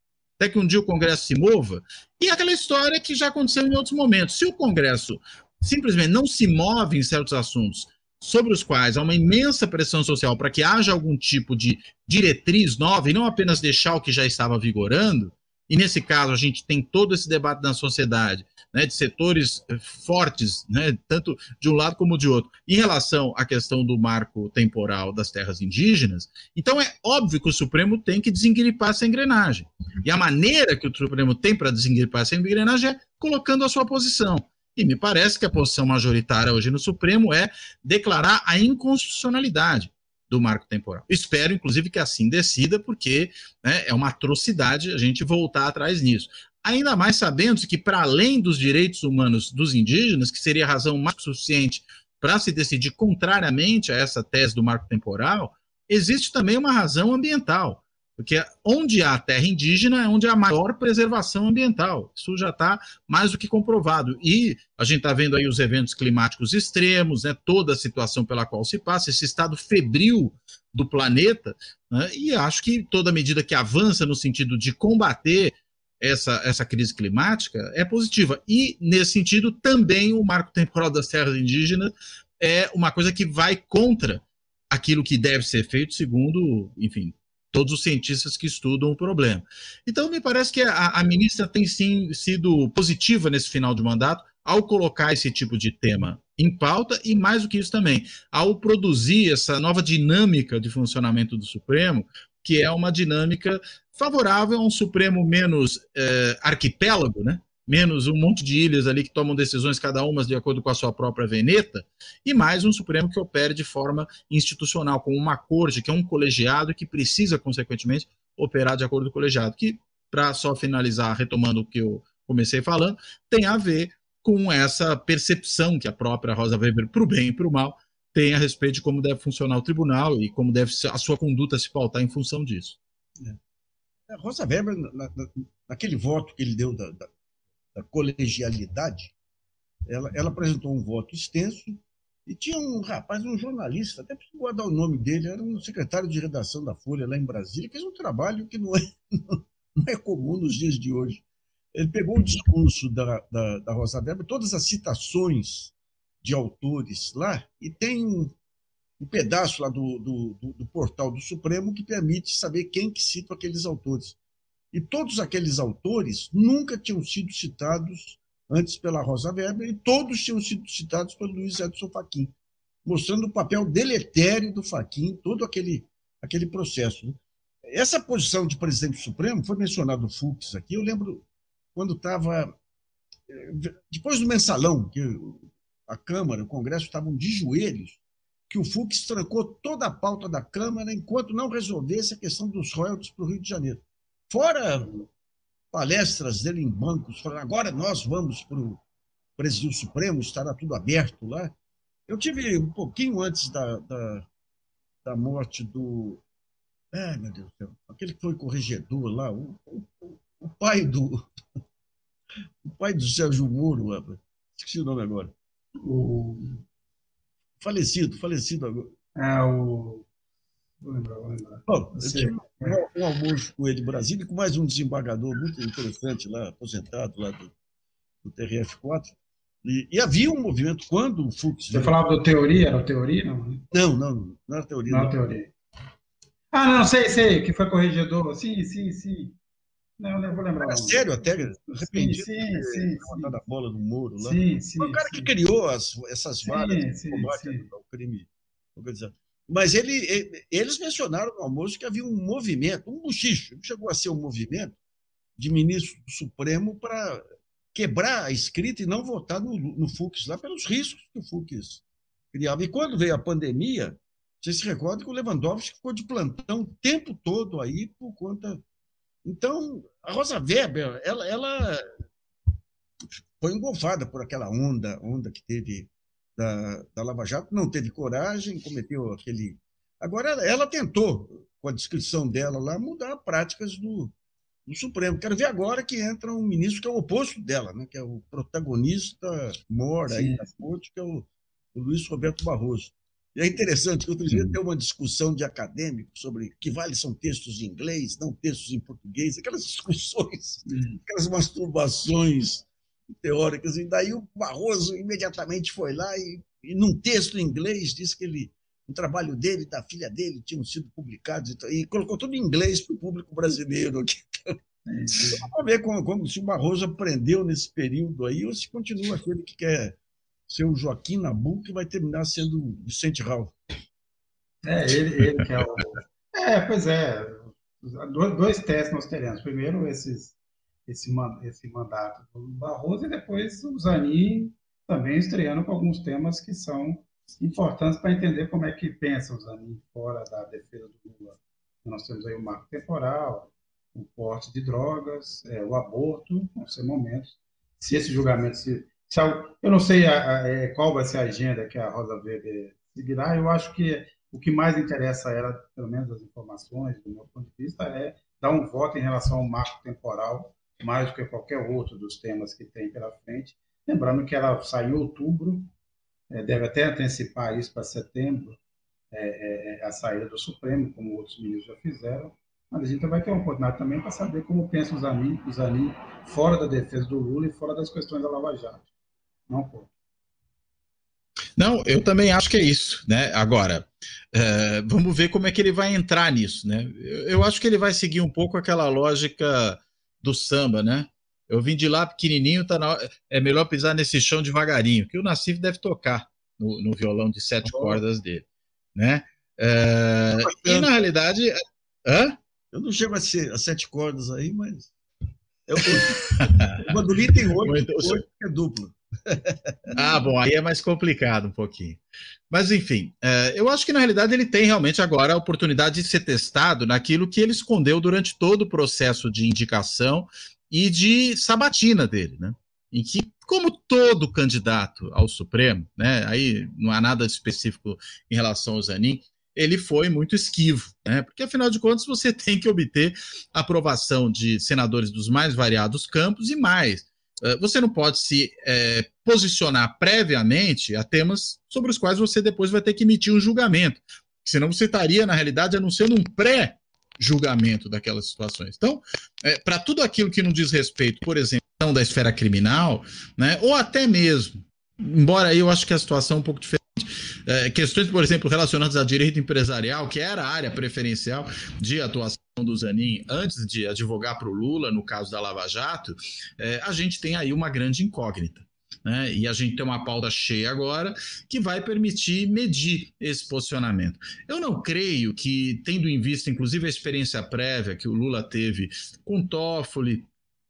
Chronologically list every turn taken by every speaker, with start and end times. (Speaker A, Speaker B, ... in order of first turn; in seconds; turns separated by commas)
Speaker A: 0.4-132.8, Speaker B: 134.1-137.1, Speaker B: 137.7-139.1, Speaker B: 139.9-158.3, Speaker B: 159.0-164.2, Speaker B: 164.7-172.3, Speaker B: 172.8-182.5, Speaker B: 183.3-194.9, Speaker C: 194.8-195.0, Speaker B: 195.7-198.8, Speaker B: 199.4-201.5, Speaker B: 202.1-204.3, Speaker B: 205.0-206.2, Speaker B: 206.9-211.3, Speaker B: 212.6-215.3, Speaker C: 215.8-216.6, Speaker B: 217.6-218.9, Speaker C: 219.2-220.1, Speaker C: 220.8-222.8, Speaker B: 221.7-227.5, Speaker B: 228.2-231.9, Speaker C: 231.7-233.6, Speaker B: 233.7-235.2, Speaker C: 234.9-235.5, Speaker C: 236.5-239.3, Speaker C: 240.0-243.3, Speaker B: 240.6-254.8, Speaker C: 244.2-245.3, Speaker C: 246.4-247.7, Speaker B: 255.4-261.8, Speaker B: 262.3-268.6, Speaker B: 269.2-271.8, Speaker B: 273.2-284.1, Speaker B: 284.6-302.7, Speaker C: 290.1-290.6, Speaker C: 300.6-301.0, Speaker B: 303.2-314.6, Speaker C: 314.9-315.4, Speaker B: 315.3-323.6, Speaker C: 324.6-330.3, Speaker C: 330.9-365.7, Speaker C: 366.3-368.6, Speaker C: 369.1-378.9, Speaker C: 379.5-379.9, Speaker A: 381.6-402.4, Speaker B: 397.6-398.0, Speaker B: 400.4-400.9, Speaker B: 402.7-404.9, Speaker B: 405.7-409.9, Speaker A: 405.9-406.9, Speaker A: 407.6-408.2, Speaker A: 409.9-480.3